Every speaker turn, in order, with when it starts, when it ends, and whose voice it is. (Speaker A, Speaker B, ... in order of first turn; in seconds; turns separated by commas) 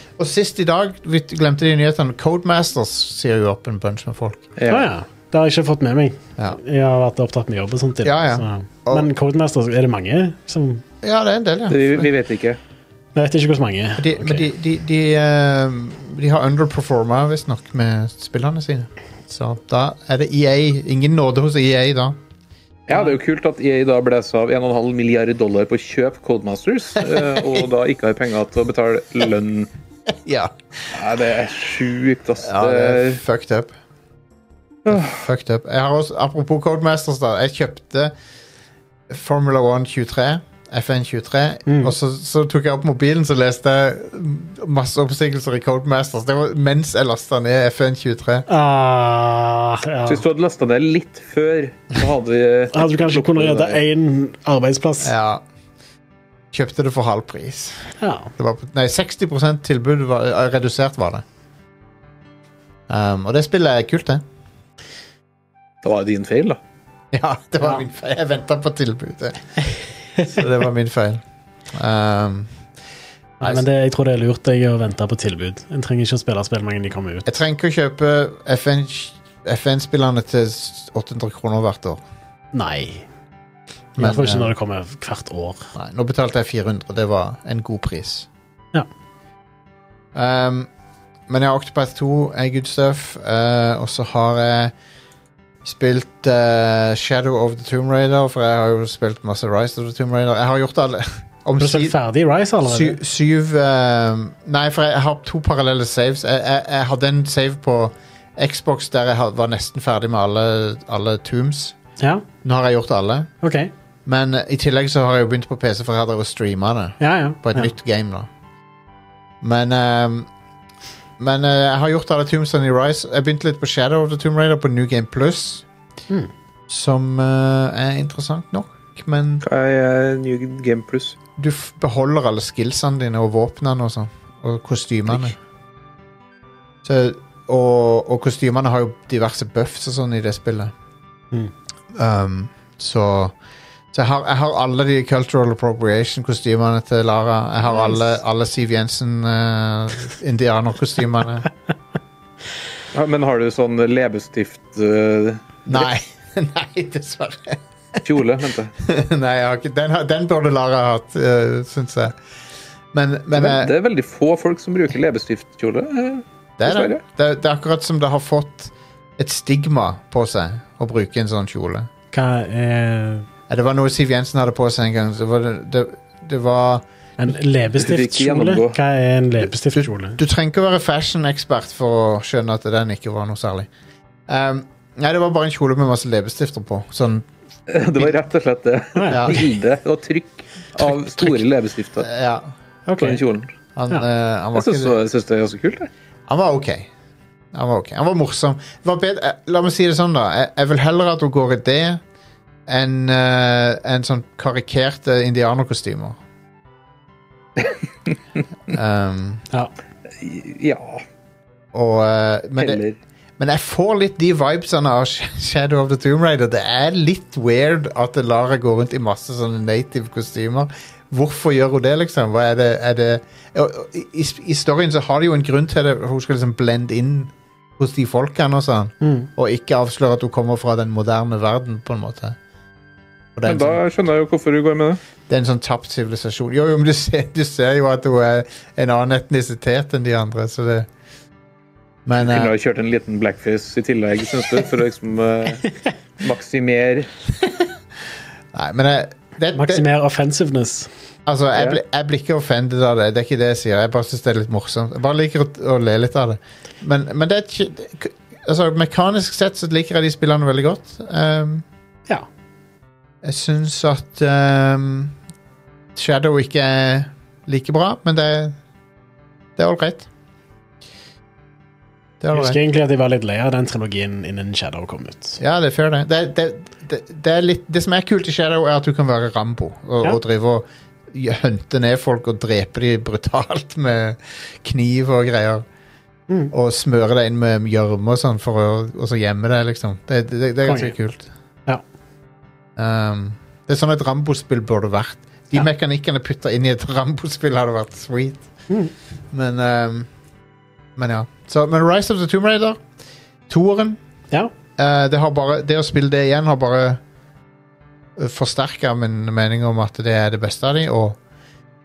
Speaker A: 0.2-4.5, Speaker B: 4.6-4.9, Speaker C: 4.7-10.8, Speaker A: 8.0-9.1, Speaker A: 11.0-12.1, Speaker B: 11.7-12.6, Speaker C: 13.2-14.5, Speaker A: 14.0-22.2, Speaker B: 22.9-29.7, Speaker A: 27.0-27.7, Speaker A: 30.2-31.0, Speaker B: 30.9-33.2, Speaker A: 32.4-33.7, Speaker B: 34.9-35.3, Speaker A: 34.9-38.1, Speaker A: 39.1-48.5, Speaker C: 41.7-42.0, Speaker C: 48.5-50.2, Speaker B: 50.1-53.8, Speaker C: 52.7-55.1, Speaker A: 55.0-55.4, Speaker A: 56.5-57.9, Speaker C: 58.0-58.3, Speaker A: 58.4-61.2, Speaker A: 62.9-64.2, Speaker B: 65.8-66.6, Speaker A: 67.1-69.5, Speaker A: 70.2-71.2, Speaker A: 71.7-72.5, Speaker C: 73.4-77.4, Speaker A: 77.3-82.0, Speaker C: 82.5-83.0, Speaker A: 84.0-84.5, Speaker C: 84.0-85.7, Speaker A: 85.8-88.3, Speaker A: 90.1-90.7, Speaker A: 91.3-94.7, Speaker A: 95.6-102.0, Speaker C: 101.6-103.0, Speaker A: 102.7-111.8, Speaker C: 112.0-112.2, Speaker A: 112.4-113.3, Speaker C: 113.4-113.7, Speaker A: 114.1-118.3, Speaker C: 117.0-117.7, Speaker A: 119.4-120.3, Speaker A: 121.2-125.7, Speaker A: 126.7-129.4, Speaker B: 129.4-131.2, Speaker A: 131.4-135.4, Speaker A: 136.8-140.7, Speaker A: 141.9-143.3, Speaker A: 143.9-151.5, Speaker C: 147.8-148.1, Speaker B: 152.9-155.9, Speaker A: 155.7-158.0, Speaker B: 158.0-158.7, Speaker A: 158.8-162.2, Speaker A: 162.9-163.7, Speaker B: 163.3-167.0, Speaker A: 166.6-171.9, Speaker C: 172.1-173.3, Speaker A: 173.5-176.8, Speaker C: 177.2-180.2, Speaker B: 177.8-178.8, Speaker A: 179.7-183.7, Speaker A: 184.3-187.3, Speaker B: 187.7-192.1, Speaker C: 189.0-189.4, Speaker A: 189.1-189.4, Speaker A: 192.0-192.5, Speaker C: 192.9-193.2, Speaker B: 193.0-193.5, Speaker A: 193.8-195.0, Speaker B: 194.6-195.9, Speaker A: 196.3-196.9, Speaker A: 197.5-202.0, Speaker A: 202.7-206.2, Speaker A: 208.7-209.4, Speaker B: 210.2-211.0, Speaker A: 211.7-212.8, Speaker B: 212.6-213.0, Speaker A: 213.4-232.4, Speaker C: 229.0-229.3, Speaker A: 233.4-233.8, Speaker B: 233.4-235.0, Speaker A: 235.3-240.9, Speaker A: 242.1-242.5, Speaker B: 242.2-247.1, Speaker A: 248.5-249.8, Speaker C: 249.6-250.9, Speaker A: 251.3-261.6, Speaker A: 263.2-265.2, Speaker A: 266.0-268.6, Speaker A: 269.6-270.1, Speaker A: 272.2-272.6, Speaker C: 272.3-275.4, Speaker A: 275.4-285.6, Speaker C: 286.3-286.5, Speaker A: 286.5-291.3, Speaker C: 290.6-290.9, Speaker A: 292.8-298.5, Speaker C: 298.7-298.9, Speaker A: 299.3-300.1, Speaker A: 301.0-302.8, Speaker A: 303.5-304.0, Speaker A: 304.8-307.0, Speaker A: 308.2-311.2